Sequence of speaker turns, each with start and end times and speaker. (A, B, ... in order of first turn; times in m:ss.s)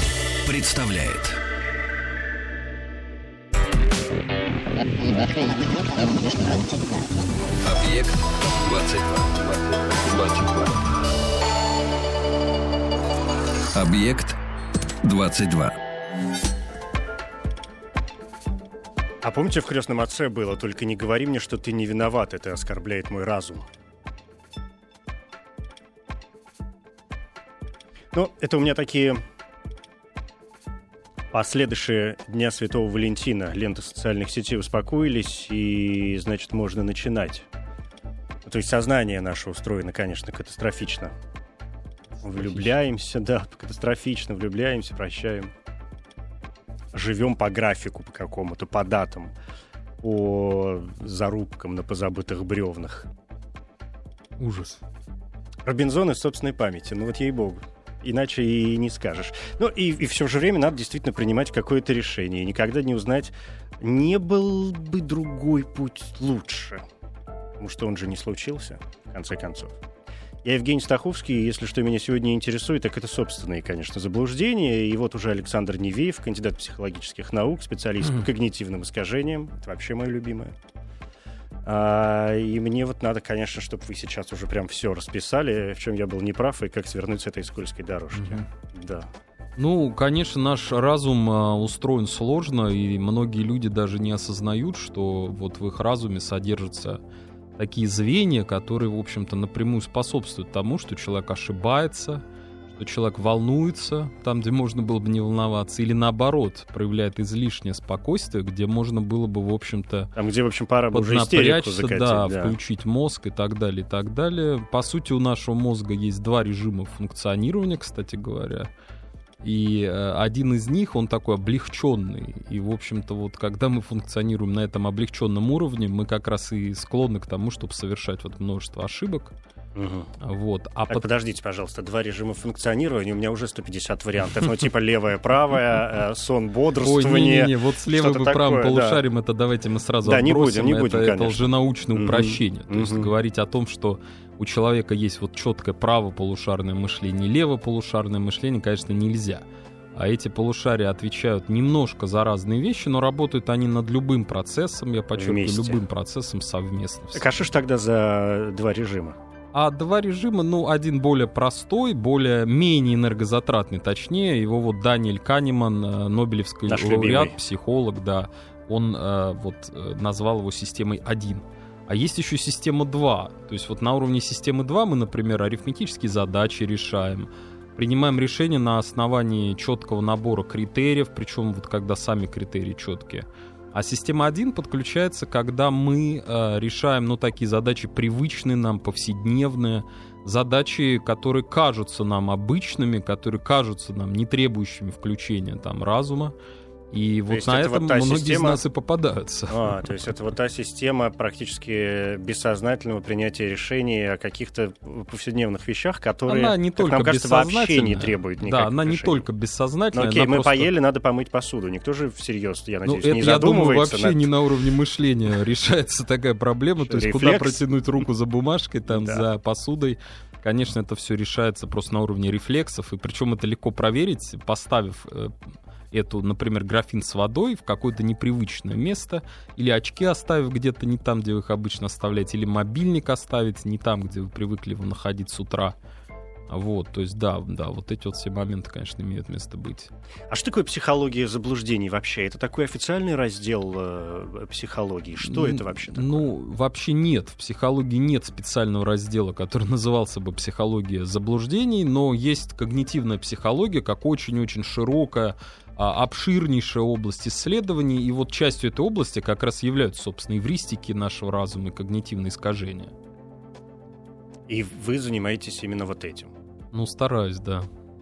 0:00.4-0:01.4 A
0:07.6-0:10.9 A
0:13.7-0:14.4 A
0:15.0-0:15.8 A
0:19.2-0:23.7 B
0:28.1-0:29.2 B
0:31.3-0:37.5 B
0:38.4-0:41.1 B
0:42.2-0:42.7 C
0:42.2-0:45.5 B
0:46.9-0:49.3 B
0:50.0-0:53.1 B
0:54.4-0:54.8 C
0:55.6-1:06.8 B
1:07.6-1:09.8 B
1:10.4-1:20.5 B
1:21.6-1:29.1 B
1:28.1-1:28.5 C
1:29.6-1:37.0 C
1:37.6-1:50.1 C
1:50.2-1:52.6 B
1:50.9-1:58.7 C
1:59.4-2:09.3 C
2:09.7-2:10.1 B
2:10.2-2:11.0 C
2:10.9-2:19.0 B
2:16.8-2:37.3 C
2:20.0-2:23.1 B
2:35.1-2:35.8 B
2:37.1-2:39.2 B
2:39.5-3:16.3 C
2:46.7-2:47.4 B
3:16.9-3:19.8 C
3:17.3-3:18.6 B
3:19.5-3:29.2 B
3:26.3-3:30.7 C
3:29.9-3:34.3 B
3:32.8-3:45.3 C
3:36.8-3:37.6 B
3:38.9-3:39.2 B
3:45.9-3:55.8 C
3:56.5-3:59.9 C
4:00.3-4:06.3 B
4:05.2-4:22.9 C
4:24.5-4:26.3 B
4:26.7-4:27.7 C